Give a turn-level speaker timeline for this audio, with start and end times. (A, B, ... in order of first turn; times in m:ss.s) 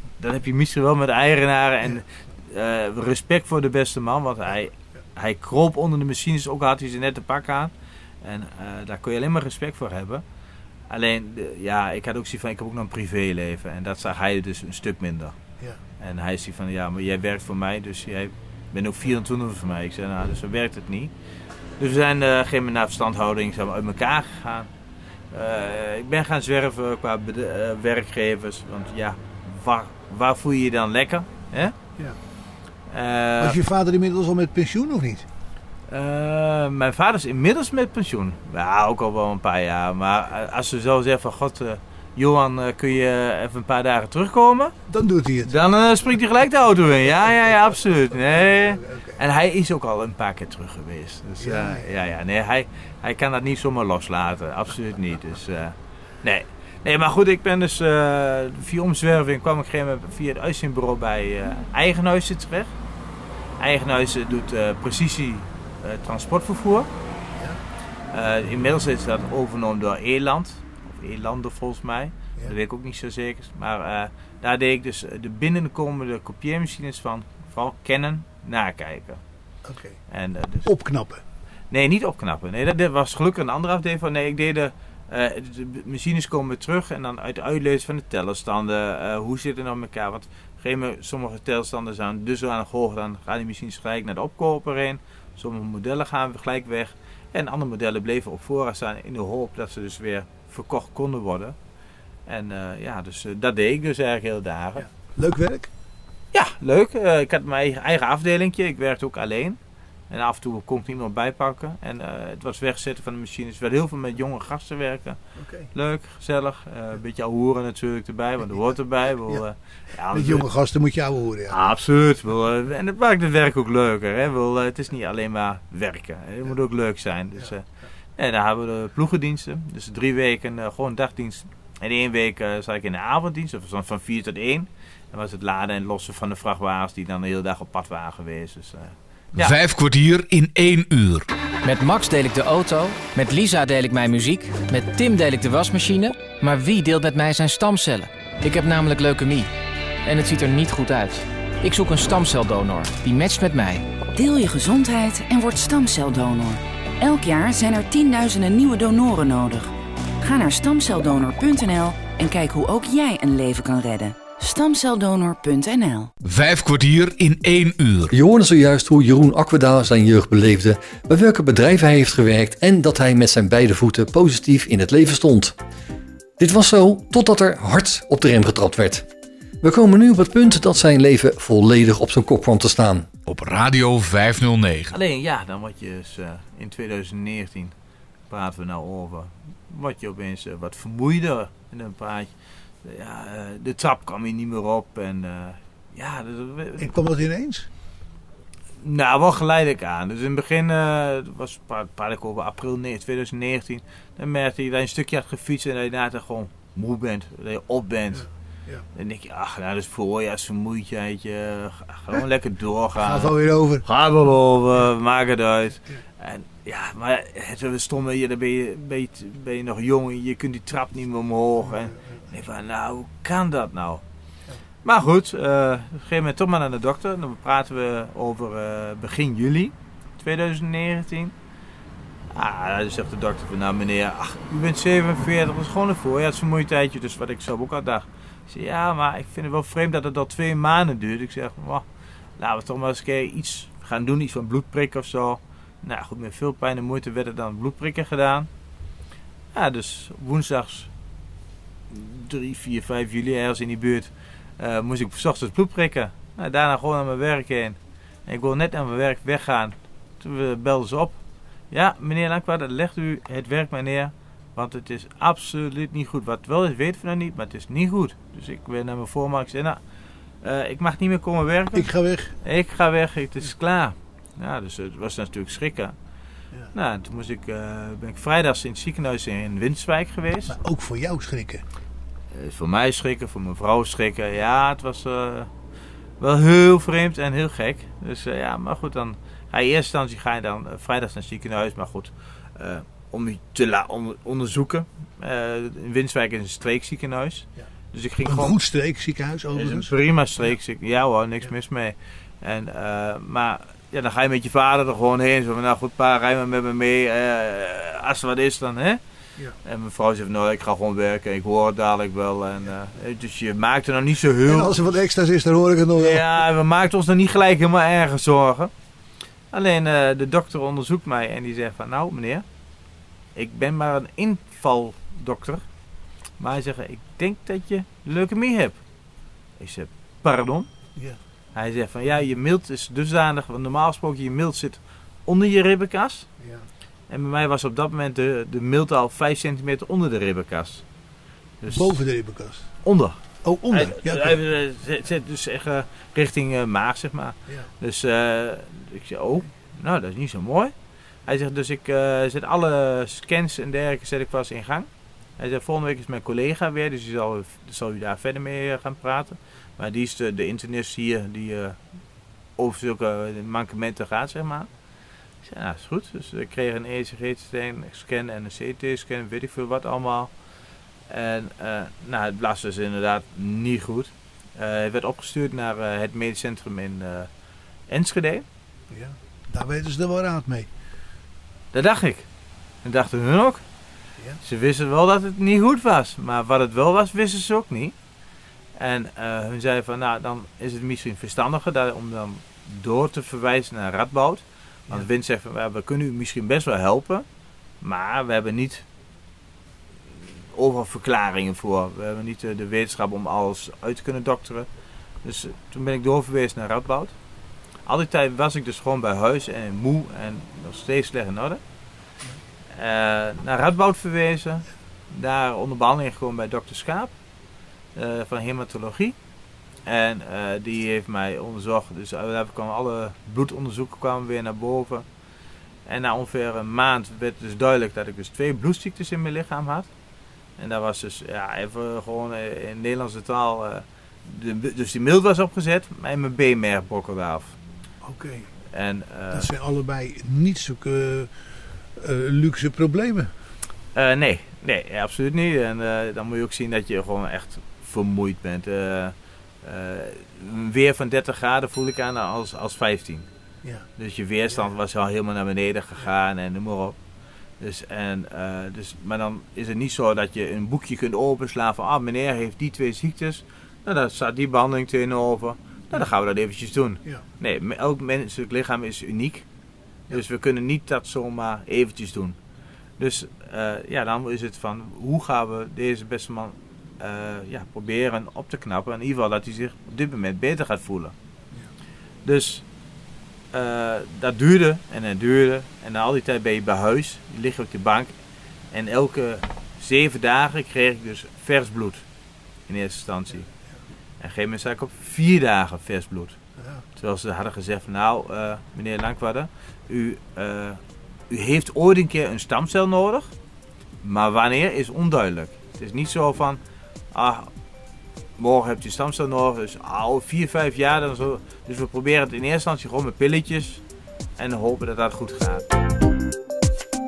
0:00.2-0:10.2 A
0:10.9-0:15.4 A
0:16.0-0:21.1 A
0:21.8-0:24.7 A
0:25.3-0:31.7 A
0:31.6-0:32.2 B
0:32.9-0:33.6 A
0:33.4-0:35.2 B
0:35.9-0:44.8 A
0:44.9-0:45.6 B
0:45.5-1:02.7 A
0:47.2-0:49.2 B
0:51.4-0:51.9 B
1:03.6-1:06.9 A
1:08.1-1:19.2 A
1:19.6-1:20.0 B
1:20.1-1:20.7 A
1:20.6-1:21.2 B
1:21.7-1:41.6 A
1:42.3-1:44.8 A
1:44.8-1:45.7 B
1:46.3-1:49.6 A
1:50.1-1:55.2 A
1:55.4-1:55.7 B
1:55.7-2:00.5 A
2:00.1-2:01.6 B
2:01.5-2:07.6 A
2:08.2-2:18.9 A
2:19.4-2:21.3 C
2:21.6-2:29.5 D
2:30.0-2:33.9 D
2:34.1-2:46.1 E
2:46.2-2:48.1 C
2:48.1-2:55.6 F
2:56.4-2:59.1 F
2:59.6-3:03.1 F
3:03.3-3:04.9 C
3:04.9-3:07.7 A
3:08.3-3:12.3 A
3:12.8-3:16.9 A
3:16.8-3:17.7 B
3:18.8-3:28.3 A
3:28.1-3:28.8 B
3:28.9-3:44.0 A
3:33.0-3:33.8 B
3:41.6-3:42.2 B
3:44.8-3:51.3 A
3:52.3-4:01.8 A
4:02.4-4:08.5 A
4:09.5-4:10.9 A
4:11.9-4:21.2 A
4:21.7-4:29.8 A
4:30.4-4:35.9 A
4:31.7-4:32.4 B
4:36.7-4:40.6 A
4:40.5-4:41.6 B
4:42.3-4:45.5 A
4:46.2-4:58.6 A
4:58.2-4:59.9 B
4:59.6-5:09.0 A
5:09.6-5:14.8 A
5:14.4-5:16.3 B
5:16.0-5:18.7 A
5:19.5-5:22.4 A
5:23.4-5:25.6 A
5:26.4-5:28.8 A
5:29.6-5:30.7 A
5:31.6-5:36.3 A
5:36.4-5:36.6 B
5:37.1-5:40.8 A
5:41.6-5:42.0 A
5:41.7-5:42.7 B
5:42.8-5:43.2 A
5:43.4-5:44.4 B
5:43.7-5:50.7 A
5:51.3-5:54.9 A
5:55.4-6:01.8 A
6:02.6-6:04.7 A
6:05.4-6:10.3 A
6:11.1-6:17.3 A
6:17.9-6:18.4 A
6:18.9-6:20.7 B
6:21.7-6:22.3 A
6:22.8-6:23.6 A
6:24.4-6:27.9 A
6:28.8-6:37.2 A
6:37.8-6:38.8 A
6:40.5-6:44.7 A
6:45.2-6:47.1 A
6:47.9-6:51.6 A
6:52.8-6:57.1 A
6:58.0-6:59.2 A
6:59.9-7:05.0 A
7:05.9-7:09.9 A
7:10.6-7:17.5 A
7:18.0-7:18.5 B
7:18.7-7:19.5 A
7:19.3-7:21.3 B
7:22.0-7:23.3 B
7:23.9-7:33.3 A
7:34.0-7:36.9 A
7:37.6-7:49.4 A
7:50.1-7:52.4 A
7:53.0-8:01.1 A
8:02.2-8:02.6 A
8:03.5-8:08.1 A
8:08.7-8:12.0 A
8:12.7-8:13.4 A
8:14.2-8:16.4 A
8:16.6-8:16.8 B
8:17.0-8:23.3 A
8:24.0-8:26.6 A
8:27.1-8:27.5 A
8:28.4-8:33.8 A
8:34.4-8:35.6 A